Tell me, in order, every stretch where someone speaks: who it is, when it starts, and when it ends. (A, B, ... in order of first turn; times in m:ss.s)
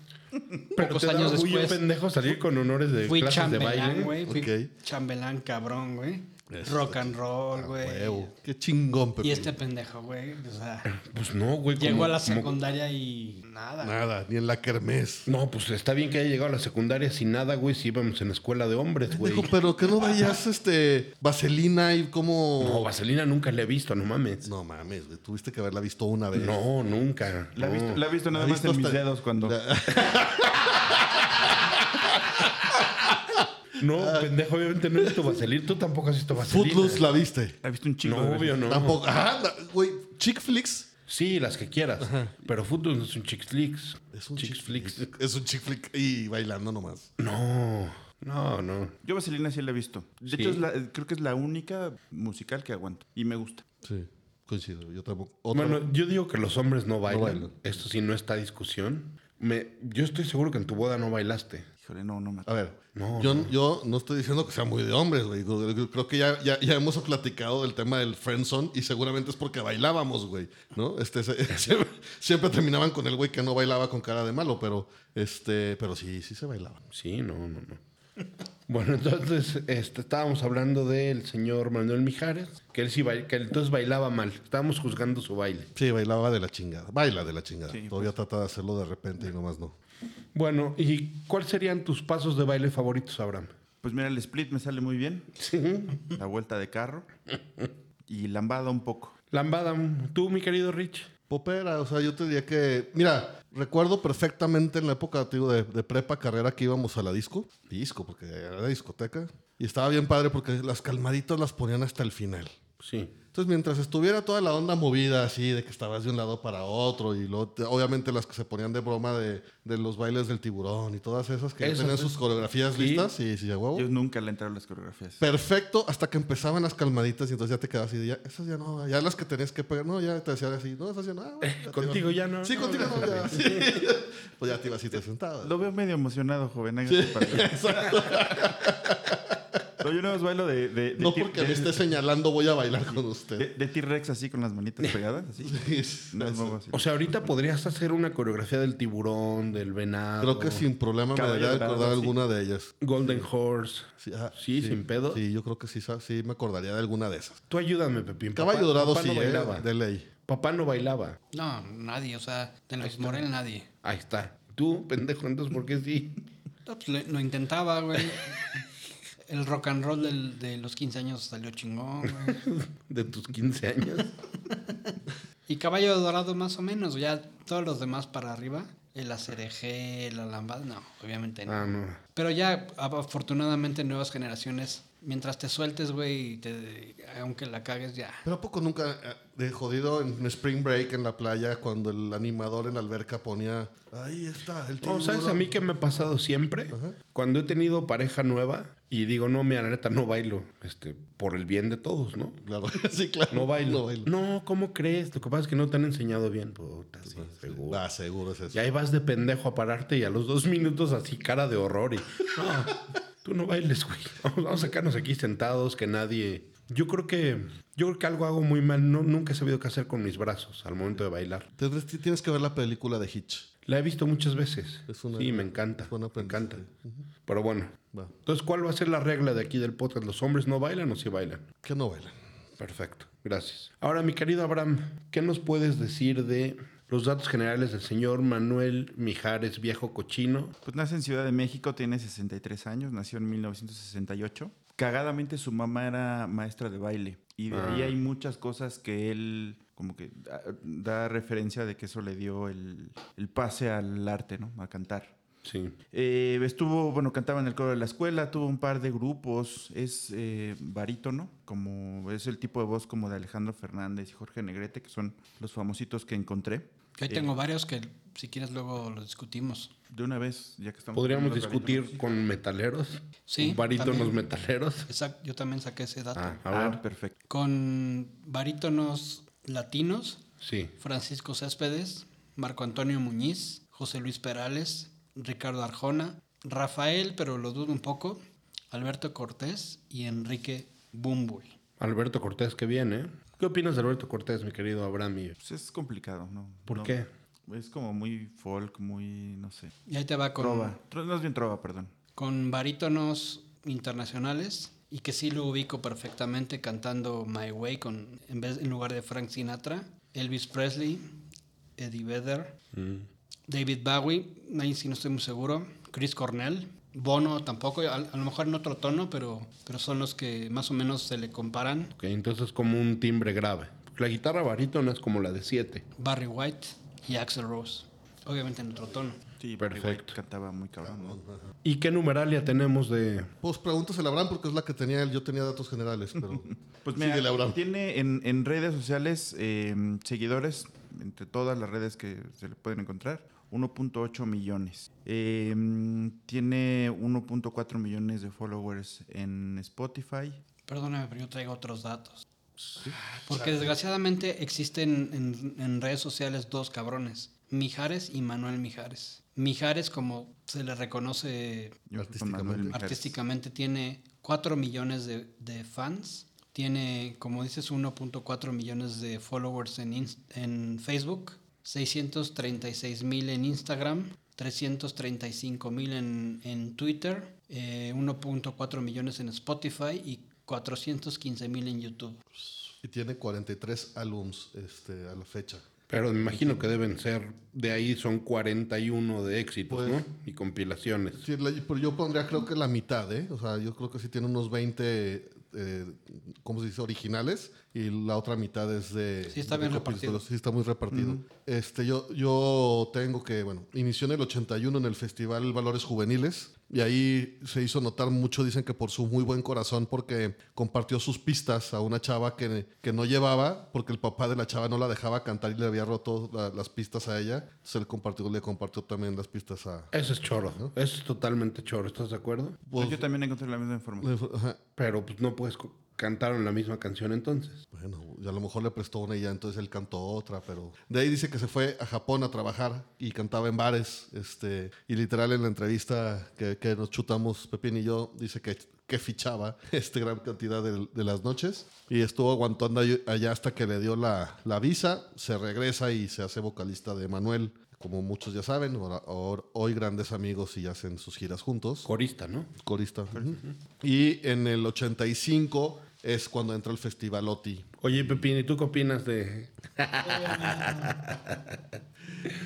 0:00.8-0:04.2 A
0:00.8-0:01.8 B
0:03.0-0:08.3 B
0:04.2-0:04.7 C
0:06.5-0:09.5 C
0:09.2-0:10.9 B
0:10.9-0:12.6 A
0:11.8-0:14.0 B
0:13.8-0:15.3 C
0:15.3-0:19.5 A
0:19.1-0:22.9 C
0:22.6-0:24.5 A
0:24.4-0:26.6 C
0:26.3-0:28.0 A
0:27.6-0:29.6 D
0:28.3-0:33.4 C
0:33.8-0:37.0 A
0:33.9-0:34.3 C
0:35.0-0:35.4 C
0:36.4-0:37.6 C
0:37.6-0:38.7 D
0:38.0-0:39.0 A
0:38.6-0:40.9 C
0:41.1-0:45.1 A
0:42.0-0:42.3 C
0:44.1-0:47.1 C
0:47.2-0:49.0 A
0:49.0-0:53.6 D
0:50.3-0:50.6 A
0:53.8-0:55.8 C
0:55.5-1:01.7 A
0:57.1-0:57.5 C
1:01.8-1:02.5 D
1:02.5-1:16.8 C
1:03.0-1:03.5 A
1:16.9-1:17.8 A
1:18.7-1:25.7 A
1:25.8-1:29.8 C
1:27.7-1:28.1 D
1:30.3-1:33.5 A
1:33.8-1:35.3 D
1:35.4-1:36.1 A
1:36.1-1:37.1 D
1:38.1-1:39.2 D
1:39.3-1:41.1 A
1:41.3-1:52.6 C
1:52.8-1:53.1 A
1:53.3-2:03.9 C
2:01.6-2:02.2 A
2:02.8-2:03.1 A
2:03.8-2:05.2 D
2:05.2-2:15.6 C
2:11.4-2:13.7 A
2:15.4-2:18.5 D
2:16.9-2:19.6 C
2:19.8-2:21.8 D
2:21.0-2:23.5 C
2:23.4-2:26.9 D
2:25.4-2:26.6 C
2:26.7-2:30.6 A
2:30.2-2:33.3 C
2:31.1-2:32.2 D
2:32.8-2:35.2 A
2:34.0-2:37.4 C
2:37.5-2:39.7 A
2:38.4-2:40.1 C
2:40.2-2:41.2 A
2:41.3-2:43.7 B
2:42.8-2:43.2 A
2:43.8-2:46.2 A
2:46.7-2:48.4 B
2:49.3-2:52.4 B
2:52.2-2:54.1 A
2:55.5-3:08.3 B
3:01.5-3:02.0 A
3:08.2-3:15.5 C
3:14.8-3:22.4 A
3:16.7-3:17.0 C
3:22.4-3:24.1 C
3:23.3-3:27.8 A
3:27.1-3:28.6 C
3:28.5-3:41.5 A
3:41.6-3:43.5 C
3:43.6-3:46.6 A
3:44.9-3:47.0 C
3:47.2-3:51.4 A
3:51.6-3:52.1 C
3:52.6-4:00.6 A
4:00.6-4:15.2 D
4:07.5-4:08.0 A
4:15.4-4:15.8 A
4:15.9-4:27.3 D
4:27.0-4:29.7 B
4:29.9-4:32.1 D
4:31.0-4:34.9 A
4:33.3-4:34.2 B
4:34.9-4:36.4 B
4:36.2-4:36.8 A
4:36.5-4:37.2 D
4:37.3-4:40.2 B
4:40.4-4:40.7 A
4:40.8-4:48.2 B
4:48.7-4:51.6 B
4:51.8-4:55.4 A
4:55.4-4:59.7 D
4:56.7-4:57.1 A
4:59.9-5:00.8 B
5:00.4-5:01.9 D
5:02.2-5:11.1 B
5:11.8-5:12.6 B
5:12.7-5:13.1 A
5:13.5-5:21.9 B
5:22.0-5:25.9 A
5:26.0-5:29.2 B
5:29.4-5:31.2 D
5:29.6-5:30.2 A
5:30.9-5:31.5 C
5:31.6-5:33.3 A
5:33.4-5:37.6 C
5:36.3-5:50.4 D
5:50.7-5:52.2 B
5:52.9-5:53.5 D
5:53.3-6:01.8 B
6:01.9-6:03.2 D
6:02.0-6:02.8 C
6:02.7-6:22.2 B
6:22.4-6:25.7 C
6:25.9-6:31.2 A
6:26.3-6:26.7 C
6:29.7-6:30.0 C
6:31.2-7:00.7 C
6:39.3-6:40.2 B
6:40.9-6:41.2 D
6:59.9-7:02.6 A
7:02.7-7:03.0 C
7:02.8-7:04.1 D
7:04.0-7:04.6 C
7:04.8-7:07.6 A
7:07.7-7:31.9 C
7:31.8-7:32.5 A
7:32.6-7:37.7 C
7:37.8-7:41.6 A
7:40.2-7:40.9 B